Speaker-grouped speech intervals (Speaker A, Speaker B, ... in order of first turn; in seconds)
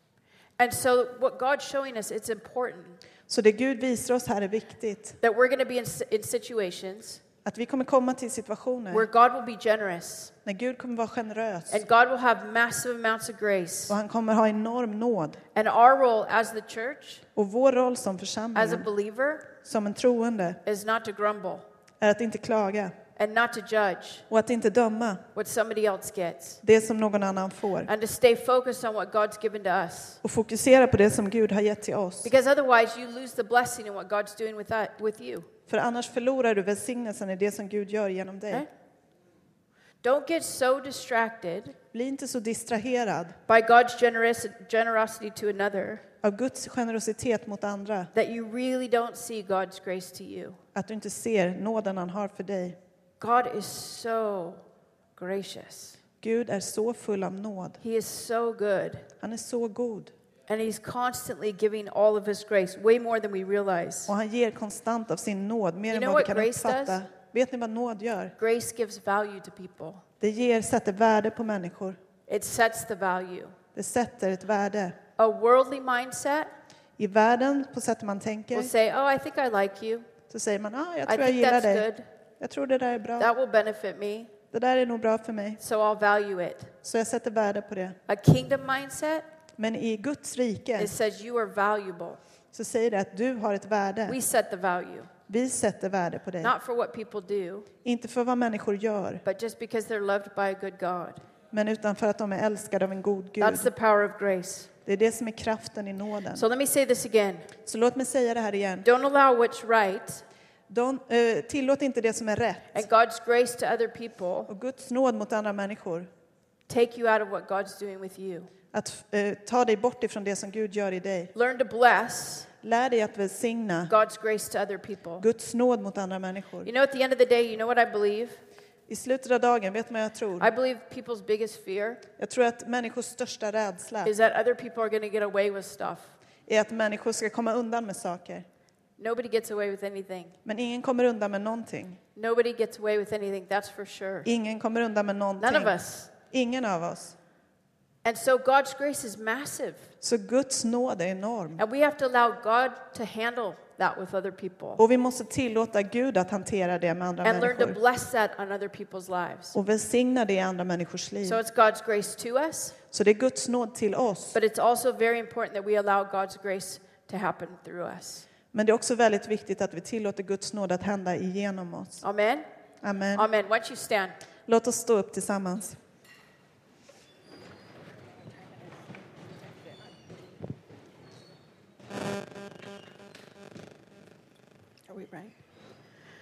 Speaker A: 0.6-3.0, 5.2-7.2, 8.9-10.3, 11.7-13.9, 15.6-17.2, 18.6-19.5, 20.6-21.6, 23.1-24.3, 25.3-26.6, 27.9-30.2, 32.2-35.5, 40.0-41.7, 43.5-46.0, 48.1-50.6, 53.2-54.6, 55.1-56.0, 57.8-59.1, 60.5-64.1, 65.9-67.0, 68.4-70.0, 72.3-73.6, 75.2-76.5, 78.5-80.1, 81.1-82.1, 83.2-84.3, 85.6-86.7, 88.1-89.2, 90.8-92.2, 94.1-95.1, 96.4-97.7, 99.2-101.2, 103.4-104.7, 106.3-107.5, 108.8-110.2, 112.7-114.5, 116.7-118.5, 121.3-122.5, 123.9-125.2, 126.6-128.4, 130.4-132.0, 134.0-136.1, 139.0-140.3, 142.1-144.3, 145.4-146.1, 148.0-149.9, 151.6-154.8, 157.2-159.6, 161.2-162.8, 164.3-168.3, 172.0-172.4, 173.1-174.2, 184.9-185.3
Speaker B: 3.3-5.2, 7.4-9.1, 10.4-11.8, 13.9-15.4, 17.4-18.9, 19.6-20.6, 22.0-22.9, 24.3-25.2, 26.6-27.9, 30.2-32.3, 35.7-38.6, 41.9-43.4, 46.2-48.1, 50.7-52.8, 56.2-57.8, 59.2-60.1, 64.1-68.3, 70.2-72.0, 73.7-75.0, 77.0-78.7, 80.3-81.9, 82.4-83.3, 84.5-85.6, 86.8-88.0, 89.6-90.9, 92.5-94.2, 95.3-96.5, 97.8-99.2, 101.5-103.7, 104.8-106.4, 107.6-108.9, 110.7-112.8, 114.5-116.1, 118.7-121.3, 122.6-123.9, 125.2-126.7, 128.9-130.5, 132.2-134.1, 136.5-138.4, 140.4-142.0, 144.2-147.1, 150.0-151.6, 154.8-157.8, 159.5-161.4, 162.9-164.4, 168.5-172.0, 172.8-173.3, 174.5-175.8